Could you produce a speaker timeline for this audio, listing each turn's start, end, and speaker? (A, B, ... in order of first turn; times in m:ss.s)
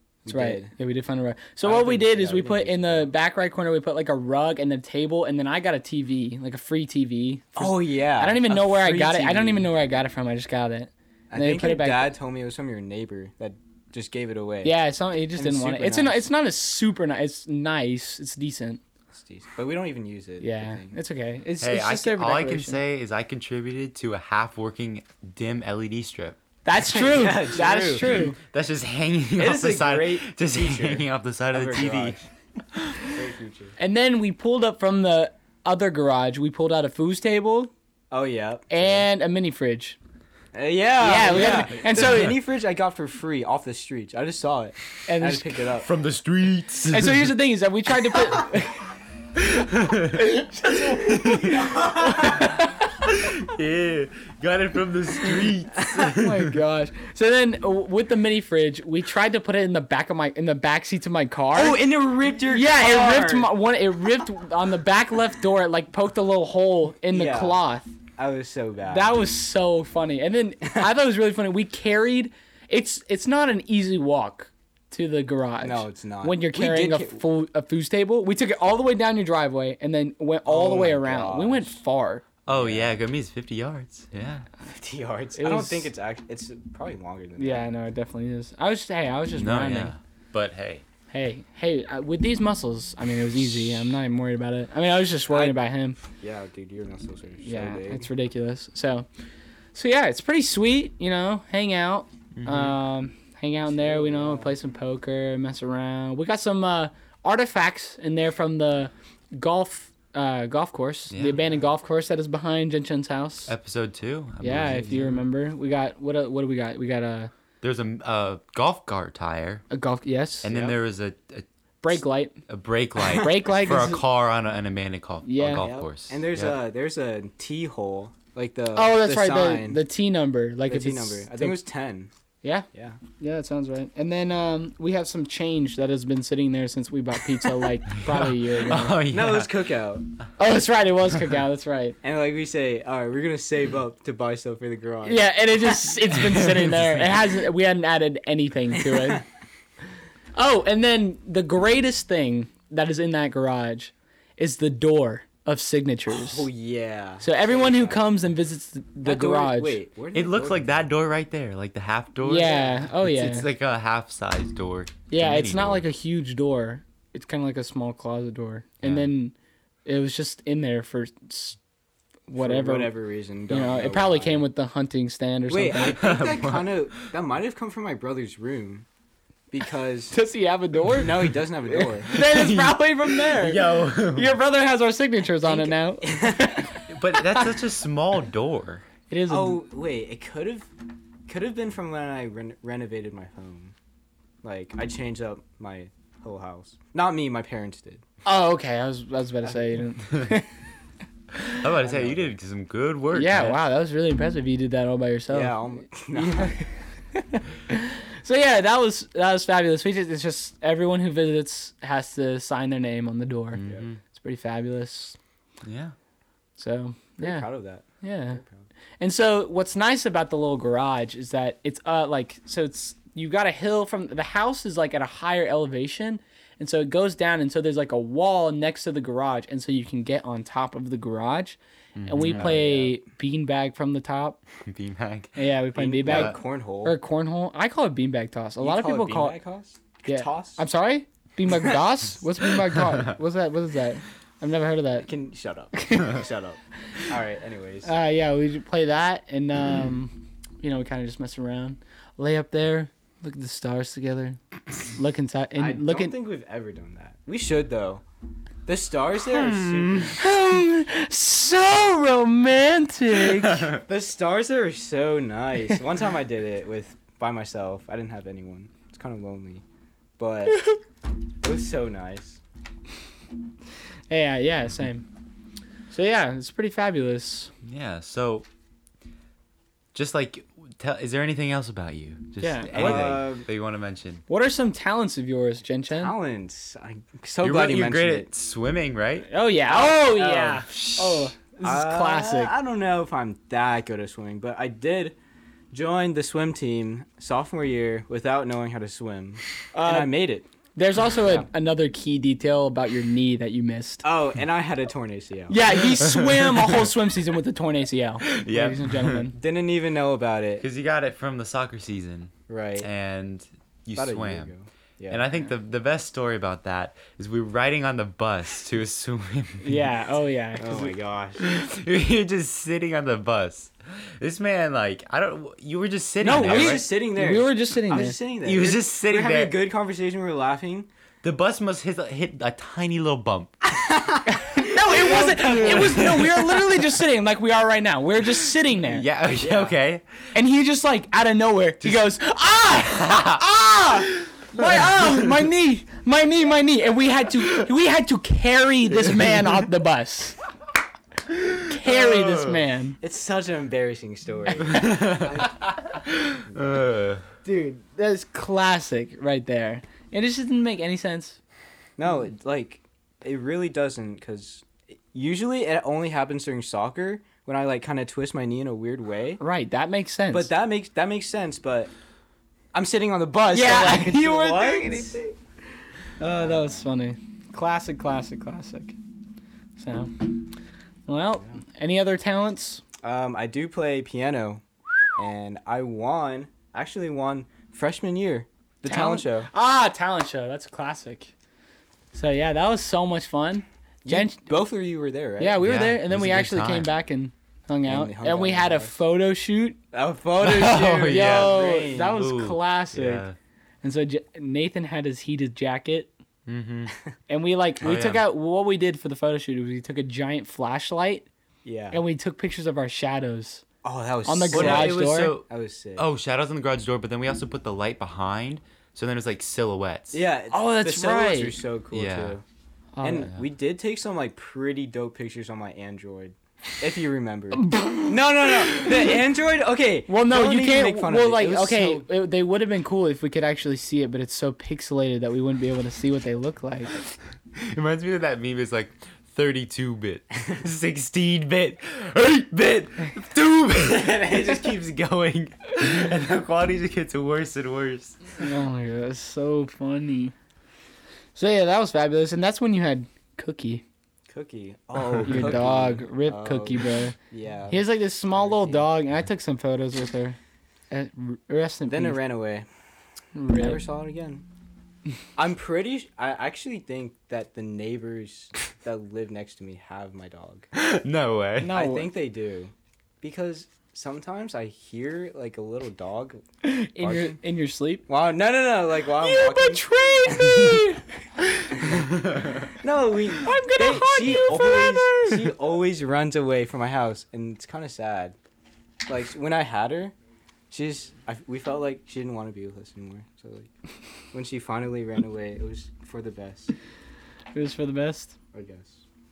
0:00.2-0:00.7 A
0:00.2-0:12.1 B
0:01.6-0:03.1 A
0:07.6-0:09.7 A
0:11.3-0:14.7 A
0:14.6-0:18.8 B
0:15.4-0:16.2 A
0:19.1-0:21.0 A
0:20.4-0:22.8 B
0:21.6-0:26.4 C
0:26.6-0:28.4 B
0:26.8-0:28.3 A
0:28.1-0:32.2 C
0:29.4-0:32.2 A
0:33.1-0:33.7 A
0:33.8-0:37.7 B
0:38.1-0:39.0 A
0:38.7-0:40.0 B
0:40.5-0:45.9 A
0:41.0-0:42.4 B
0:45.1-0:45.6 B
0:45.8-0:47.3 C
0:46.9-0:48.9 B
0:49.5-0:52.5 C
0:50.1-0:52.8 B
0:53.0-0:56.5 C
0:56.0-1:01.8 B
1:01.5-1:03.5 A
1:02.4-1:07.9 B
1:07.1-1:07.6 A
1:08.2-1:09.1 A
1:08.8-1:22.2 B
1:15.6-1:17.2 A
1:20.4-1:21.7 A
1:22.4-1:24.5 C
1:22.5-1:22.9 A
1:24.6-1:27.7 A
1:25.4-1:25.9 B
1:27.4-1:29.9 B
1:29.3-1:30.8 C
1:31.1-1:36.0 B
1:35.3-1:35.6 A
1:36.1-1:38.1 A
1:37.4-1:39.1 B
1:39.7-1:53.5 B
1:42.4-1:42.7 C
1:43.8-1:44.5 A
1:51.1-1:51.4 C
1:53.5-1:55.2 C
1:54.4-1:57.3 B
1:57.6-1:59.6 C
1:59.7-2:00.5 B
2:00.4-2:06.6 C
2:00.5-2:00.8 A
2:01.8-2:02.4 B
2:03.0-2:04.0 B
2:05.2-2:05.7 B
2:05.6-2:09.8 A
2:08.7-2:11.6 B
2:10.7-2:12.1 A
2:12.4-2:19.0 B
2:12.7-2:13.0 A
2:17.9-2:19.5 C
2:19.1-2:20.0 A
2:20.4-2:22.0 B
2:22.0-2:26.0 A
2:25.0-2:29.2 B
2:28.8-2:29.2 A
2:30.3-2:36.5 B
2:36.1-2:38.1 A
2:37.2-2:39.8 B
2:39.0-2:40.9 A
2:40.1-2:45.8 C
2:42.2-2:43.5 B
2:42.4-2:42.8 A
2:45.1-2:49.3 B
2:48.8-2:49.1 C
2:49.8-2:51.6 B
2:52.3-2:52.9 B
2:52.4-2:54.4 A
2:53.5-2:56.0 B
2:55.5-2:58.8 A
2:56.0-2:56.7 C
2:59.5-3:00.1 A
3:00.1-3:07.4 B
3:00.9-3:02.1 A
3:02.1-3:04.4 C
3:05.4-3:06.6 A
3:06.9-3:08.8 C
3:09.1-3:09.6 B
3:09.3-3:10.7 A
3:11.3-3:13.7 A
3:14.4-3:18.0 A
3:18.2-3:20.5 B
3:21.5-3:23.6 C
3:21.8-3:22.3 A
3:23.1-3:35.2 B
3:25.3-3:26.6 A
3:33.5-3:34.0 C
3:33.6-3:33.8 A
3:35.6-3:35.9 C
3:36.6-3:37.5 B
3:37.2-3:38.6 A
3:38.0-3:38.4 B
3:39.0-3:54.4 B
3:52.0-3:52.5 C
3:52.2-3:53.0 A
3:54.6-3:55.4 C
3:55.3-3:59.4 B
3:55.7-3:57.0 A
3:58.6-4:00.6 A
4:00.0-4:05.1 B
4:05.0-4:07.9 A
4:05.7-4:06.2 B
4:07.8-4:14.4 B
4:14.9-4:16.1 B
4:15.6-4:18.0 A
4:18.6-4:20.2 A
4:19.5-4:20.1 C
4:20.1-4:23.7 B
4:23.9-4:29.6 A
4:30.2-4:30.6 A
4:30.5-4:30.8 B
4:31.4-4:32.4 A
4:34.1-4:35.0 B
4:35.9-4:37.5 B
4:37.6-4:38.5 C
4:39.9-4:44.2 C
4:42.4-4:43.1 B
4:42.7-4:43.5 A
4:44.3-4:46.1 B
4:45.9-4:48.3 A
4:47.4-4:49.3 C
4:49.3-4:52.5 B
4:49.7-4:50.6 A
4:50.7-4:51.3 C
4:51.6-4:55.2 A
4:55.7-5:00.5 A
4:59.7-5:00.1 B
5:00.7-5:04.0 B
5:04.0-5:05.6 A
5:05.5-5:09.4 B
5:06.2-5:06.7 C
5:08.3-5:09.3 C
5:09.4-5:10.6 A
5:10.6-5:14.5 C
5:12.5-5:12.9 A
5:13.9-5:15.2 A
5:15.1-5:19.8 C
5:19.6-5:20.9 B
5:20.6-5:21.4 A
5:21.4-5:26.8 C
5:26.2-5:28.2 B
5:26.3-5:30.9 A
5:28.4-5:29.5 C
5:31.2-5:33.6 C
5:33.7-5:36.8 A
5:34.3-5:39.0 B
5:35.3-5:36.3 C
5:38.7-5:40.0 C
5:39.4-5:39.7 A
5:40.3-5:50.4 B
5:41.8-5:42.1 C
5:42.8-5:43.4 C
5:44.1-5:45.3 C
5:49.0-5:49.3 C
5:51.3-5:52.6 C
5:51.6-5:53.0 B
5:53.0-5:55.5 A
5:54.6-5:57.3 C
5:56.5-5:56.8 A
5:57.4-6:01.4 B
6:02.0-6:09.4 A
6:09.4-6:10.5 B
6:10.3-6:11.9 A
6:12.7-6:15.2 A
6:13.5-6:15.2 B
6:16.2-6:19.0 B
6:16.2-6:16.8 A
6:19.8-6:20.3 B
6:21.1-6:22.8 B
6:23.0-6:24.6 A
6:25.2-6:29.5 A
6:28.8-6:31.3 B
6:32.1-6:34.5 B
6:34.0-6:35.6 A
6:35.4-6:39.8 B
6:35.6-6:36.9 C
6:37.8-6:39.0 A
6:39.9-6:42.3 A
6:40.4-6:43.4 C
6:41.1-6:43.2 B
6:43.8-6:46.1 B
6:46.5-6:46.9 C
6:47.3-6:51.3 B
6:47.8-6:48.2 C
6:51.6-6:52.0 A
6:51.9-6:53.6 B
6:53.8-6:56.0 A
6:54.2-6:55.4 B
6:54.5-7:00.2 C
7:00.1-7:02.4 A
7:00.5-7:01.6 B
7:01.9-7:02.4 C
7:03.0-7:03.3 B
7:03.0-7:12.1 A
7:07.6-7:09.1 B
7:10.1-7:16.9 B
7:17.6-7:28.2 C
7:28.4-7:30.3 B
7:31.3-7:33.8 B
7:34.3-7:38.9 A
7:35.0-7:35.5 C
7:35.2-7:37.2 B
7:37.7-7:40.4 B
7:40.9-7:42.2 B
7:41.9-7:42.7 A
7:43.3-7:43.8 B
7:43.5-7:44.4 A
7:45.4-7:50.7 A
7:50.7-7:51.7 C
7:51.6-7:52.1 B
7:51.7-7:56.4 A
7:56.6-7:58.0 B
7:57.0-7:57.4 A
7:58.1-8:01.0 A
7:59.2-8:01.0 B
8:02.8-8:08.4 A
8:03.4-8:05.5 B
8:09.1-8:10.1 A
8:10.7-8:13.7 A
8:14.3-8:16.7 A
8:17.5-8:18.4 B
8:18.5-8:19.0 A